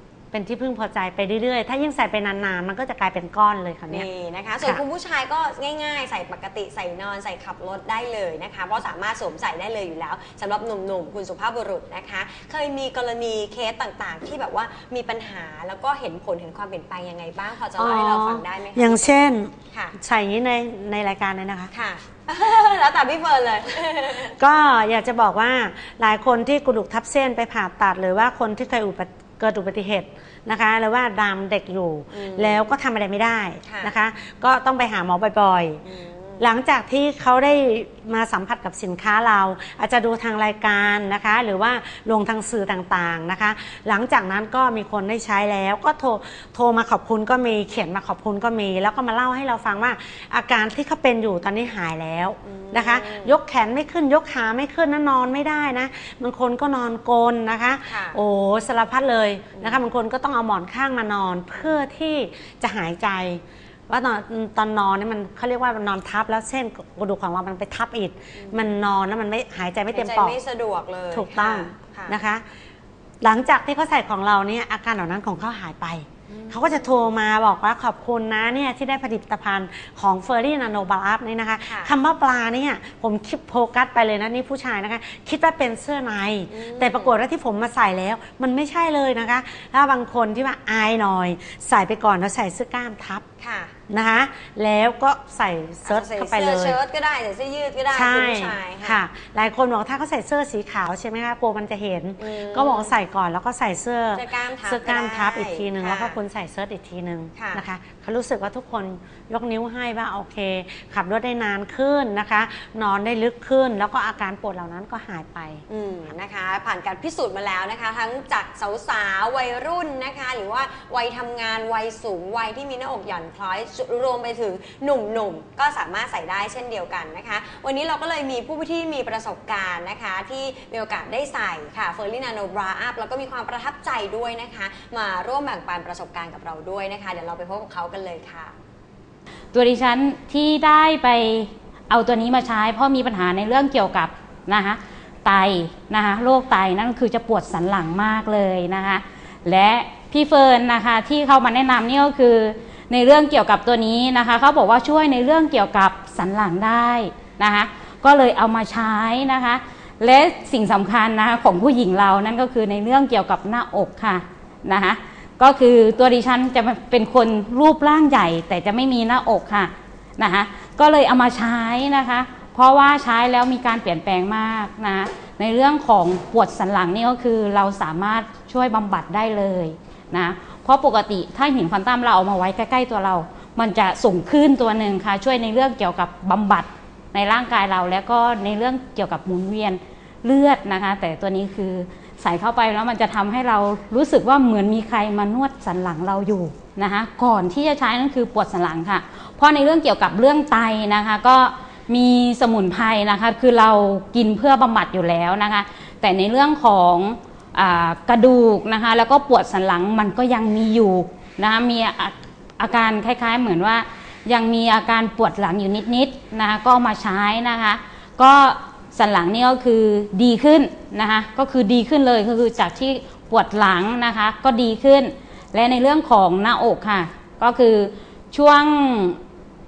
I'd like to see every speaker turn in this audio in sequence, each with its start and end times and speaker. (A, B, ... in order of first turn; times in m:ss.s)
0:00.3-0:04.1 A
0:03.9-0:19.1 B
0:17.8-0:21.7 A
0:19.7-0:20.0 B
0:21.7-0:24.4 B
0:24.4-0:35.8 A
0:32.1-0:32.7 B
0:33.6-0:33.9 B
0:35.8-0:36.4 B
0:36.4-1:10.3 A
0:52.4-0:53.4 B
0:57.9-0:58.2 B
0:59.5-0:59.8 B
1:08.3-1:08.7 B
1:09.9-1:12.2 B
1:11.1-1:12.4 A
1:13.2-1:33.2 A
1:16.3-1:17.1 B
1:21.6-1:21.9 B
1:26.5-1:27.2 B
1:33.4-1:33.7 B
1:33.9-1:36.8 A
1:35.8-1:39.0 B
1:37.9-1:55.6 A
1:42.2-1:42.9 B
1:44.1-1:46.2 B
1:47.4-1:47.6 B
1:55.7-2:18.5 B
2:19.5-3:49.2 C